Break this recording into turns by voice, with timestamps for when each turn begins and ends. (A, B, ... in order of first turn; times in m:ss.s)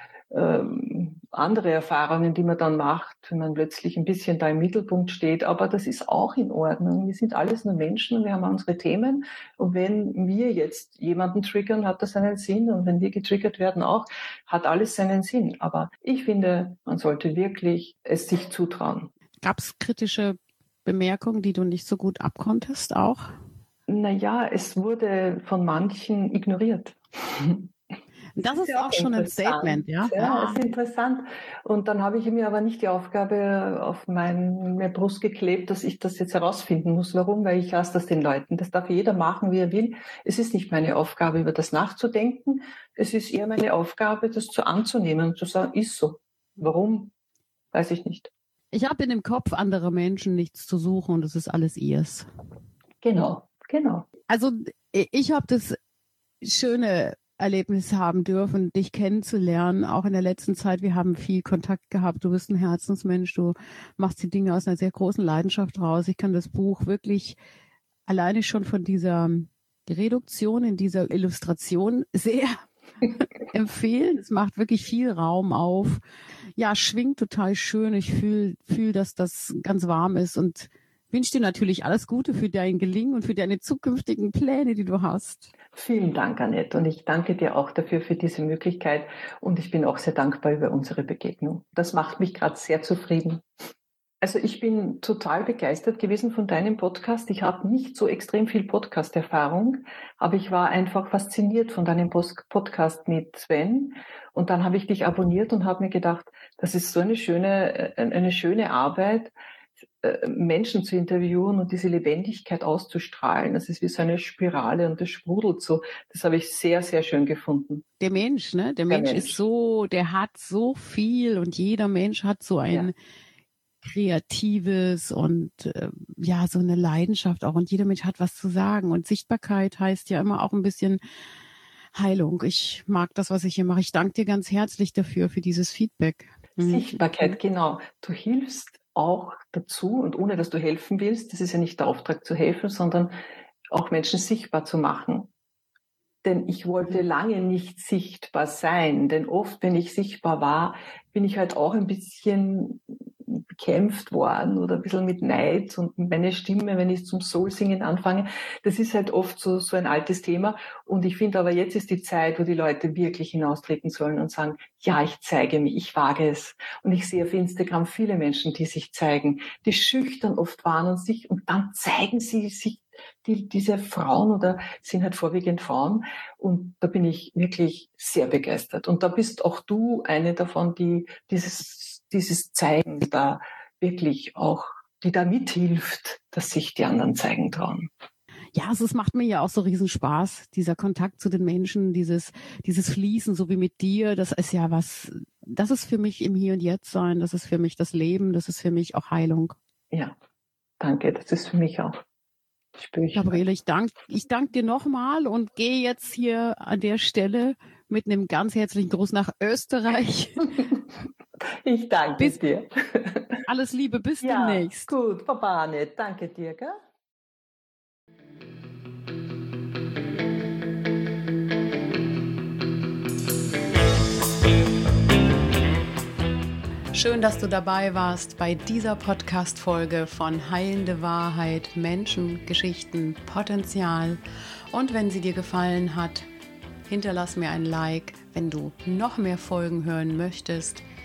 0:00.3-0:19.1 A
0:19.4-0:23.4 B
0:23.9-0:27.7 A
0:28.4-0:30.6 B
0:28.5-0:47.1 A
0:47.7-0:48.3 A
0:48.7-0:52.3 B
0:53.0-0:54.0 A
0:54.3-0:55.8 B
0:56.4-1:07.4 B
1:08.1-1:16.0 B
1:16.6-1:25.5 B
1:25.7-1:33.4 A
1:34.2-1:49.3 A
1:50.0-1:57.8 A
1:58.0-2:02.9 B
1:58.9-1:59.4 A
2:03.8-2:11.0 B
2:11.9-2:17.4 B
2:16.6-2:23.1 A
2:23.7-2:25.3 A
2:26.2-3:07.9 A
3:08.5-3:19.6 B
3:20.8-3:22.0 A
3:22.8-3:23.4 A
3:23.1-3:30.6 B
3:31.6-3:33.4 A
3:33.4-3:34.9 B
3:34.2-3:36.8 A
3:46.9-3:54.2 B
3:54.7-3:56.3 B
3:56.9-4:00.8 B